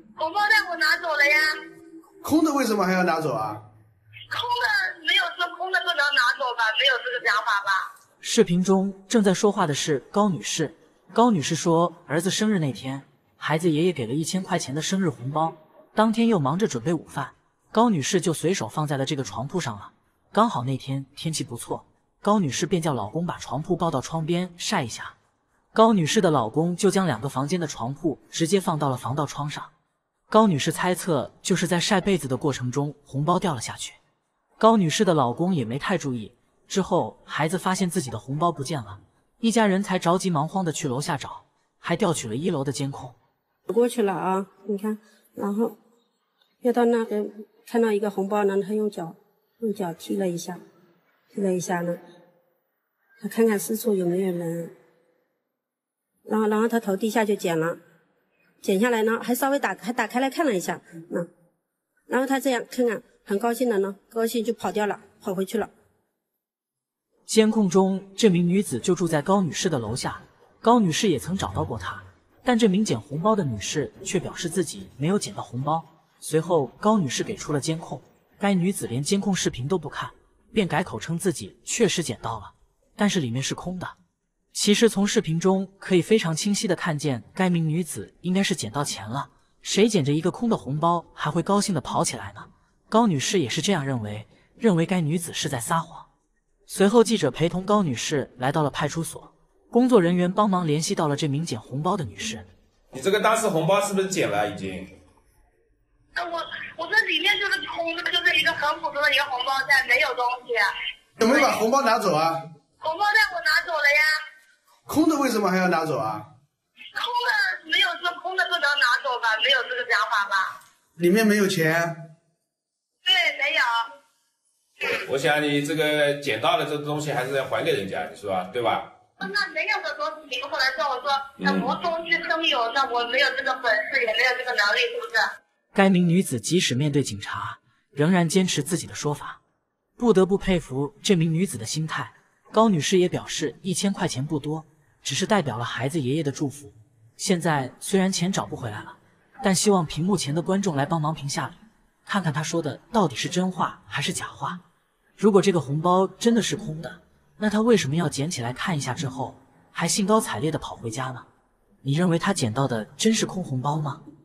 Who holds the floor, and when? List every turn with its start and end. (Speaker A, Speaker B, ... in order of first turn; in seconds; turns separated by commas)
Speaker A: 0.2-1.6, Speaker B: 2.2-3.6, Speaker A: 4.3-7.9, Speaker C: 8.2-25.1, Speaker C: 25.7-29.7, Speaker C: 30.3-34.0, Speaker C: 34.6-43.1, Speaker D: 43.7-45.8, Speaker D: 46.6-50.6, Speaker D: 51.3-52.0, Speaker D: 53.2-54.7, Speaker D: 56.3-57.8, Speaker D: 58.6-61.3, Speaker D: 62.1-65.7, Speaker C: 67.3-84.0, Speaker C: 84.5-96.1, Speaker C: 96.7-102.5, Speaker E: 102.9-104.9, Speaker A: 106.2-111.6, Speaker B: 111.2-112.4, Speaker A: 112.8-114.1, Speaker B: 114.9-116.3, Speaker A: 117.0-120.6, Speaker B: 121.0-122.0, Speaker A: 123.0-123.8, Speaker E: 125.0-128.9, Speaker A: 129.2-135.2, Speaker E: 131.4-131.7, Speaker C: 135.7-139.4, Speaker C: 140.0-154.6, Speaker C: 155.2-161.3, Speaker C: 161.8-164.0